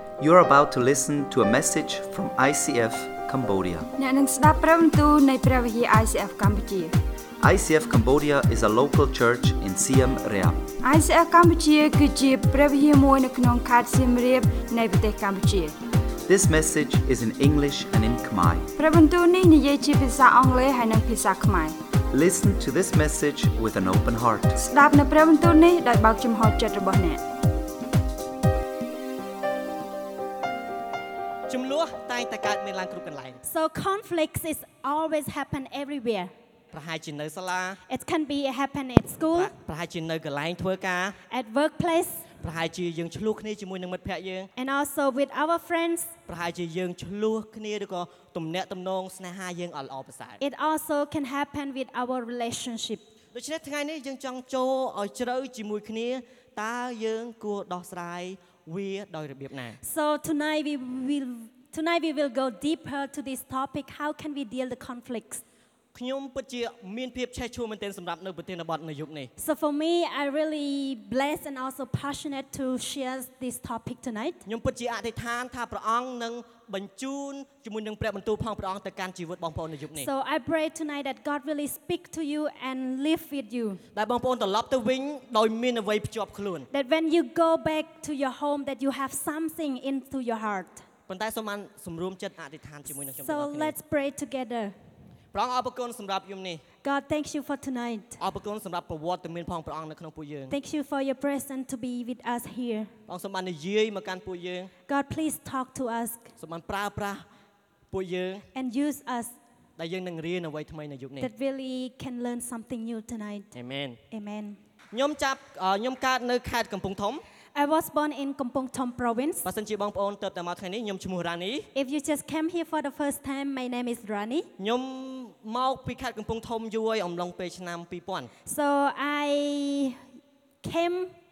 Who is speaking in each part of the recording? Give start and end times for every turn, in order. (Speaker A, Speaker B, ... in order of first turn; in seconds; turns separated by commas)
Speaker A: 0.2-3.9, Speaker B: 4.0-6.9, Speaker A: 7.4-10.6, Speaker B: 10.8-15.7, Speaker A: 16.2-18.7, Speaker B: 18.8-21.8, Speaker A: 22.1-24.6, Speaker B: 24.6-27.2, Speaker C: 31.5-33.4, Speaker D: 33.4-36.3, Speaker C: 36.7-37.8, Speaker D: 37.9-39.5, Speaker C: 39.3-41.2, Speaker D: 41.3-42.3, Speaker C: 42.4-44.5, Speaker D: 44.6-46.1, Speaker C: 46.3-50.4, Speaker D: 50.4-53.0, Speaker C: 53.3-59.8, Speaker D: 59.8-65.4, Speaker C: 65.9-69.3, Speaker D: 69.4-74.4, Speaker C: 74.5-80.1, Speaker D: 79.9-83.8, Speaker C: 83.9-86.7, Speaker D: 86.7-90.8, Speaker C: 91.1-93.7, Speaker D: 93.1-94.7, Speaker C: 95.3-96.6, Speaker D: 96.8-98.2, Speaker C: 98.2-100.5, Speaker D: 100.5-102.9, Speaker C: 103.1-104.7, Speaker D: 104.9-106.3, Speaker C: 106.4-107.2, Speaker C: 107.9-108.4, Speaker D: 108.5-109.3, Speaker C: 109.8-111.3, Speaker D: 111.2-113.5, Speaker C: 113.5-114.0, Speaker D: 114.1-114.6, Speaker C: 114.9-117.2, Speaker D: 117.5-119.5, Speaker C: 119.4-121.7, Speaker D: 121.7-124.5, Speaker C: 124.6-128.3, Speaker D: 128.4-130.0, Speaker D: 130.6-131.1